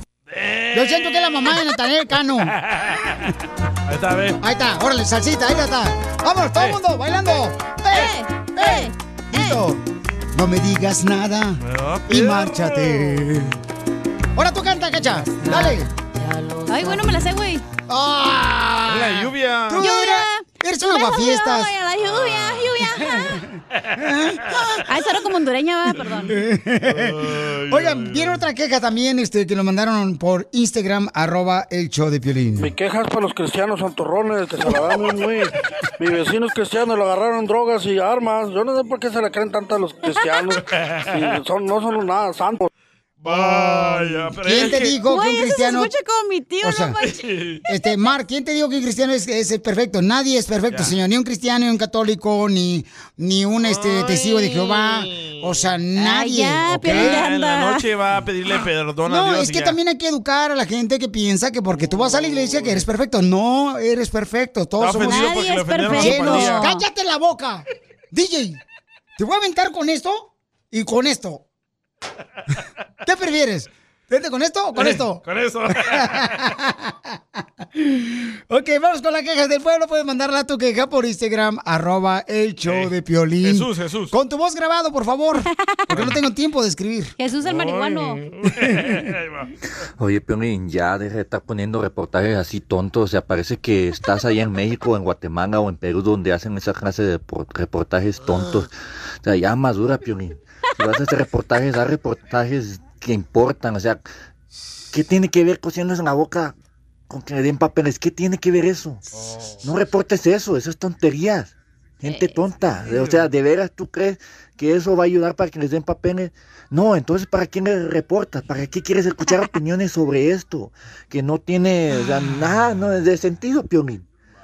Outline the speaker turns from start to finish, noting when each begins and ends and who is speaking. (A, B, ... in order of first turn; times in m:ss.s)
0:00.3-0:01.6 A
0:00.7-0:02.6 B
0:02.4-0:03.3 A
0:03.9-0:04.4 A
0:04.4-0:09.8 B
0:07.9-0:09.6 C
0:10.3-0:13.6 B
0:11.6-0:13.3 A
0:14.4-0:15.9 B
0:15.4-0:15.8 C
0:16.7-0:17.6 C
0:17.9-0:21.7 B
0:18.9-0:19.9 A
0:19.8-0:23.4 C
0:22.0-0:22.8 A
0:23.8-0:24.8 A
0:24.0-0:24.6 B
0:24.9-0:26.4 C
0:26.3-0:32.7 B
0:26.8-0:28.4 A
0:32.6-0:42.7 D
0:40.7-0:41.3 A
0:43.2-0:45.0 A
0:43.3-0:45.9 B
0:45.0-0:47.2 C
0:46.6-0:47.0 B
0:47.0-0:47.6 A
0:47.7-0:57.2 B
0:50.7-0:51.0 A
0:53.6-0:55.8 A
0:56.0-0:57.8 C
0:56.8-0:59.8 A
0:59.1-1:08.6 B
1:01.8-1:02.9 A
1:04.8-1:06.7 A
1:05.0-1:06.8 C
1:09.2-1:11.4 B
1:13.0-1:15.2 B
1:14.8-1:16.6 A
1:15.8-1:16.9 B
1:17.8-1:27.1 B
1:22.6-1:24.2 A
1:25.9-1:26.2 A
1:27.2-1:28.2 C
1:27.4-1:29.5 A
1:30.0-1:44.1 E
1:44.9-1:46.6 E
1:47.1-1:49.0 E
1:49.6-2:04.0 E
1:52.0-1:52.4 C
1:52.9-1:53.2 A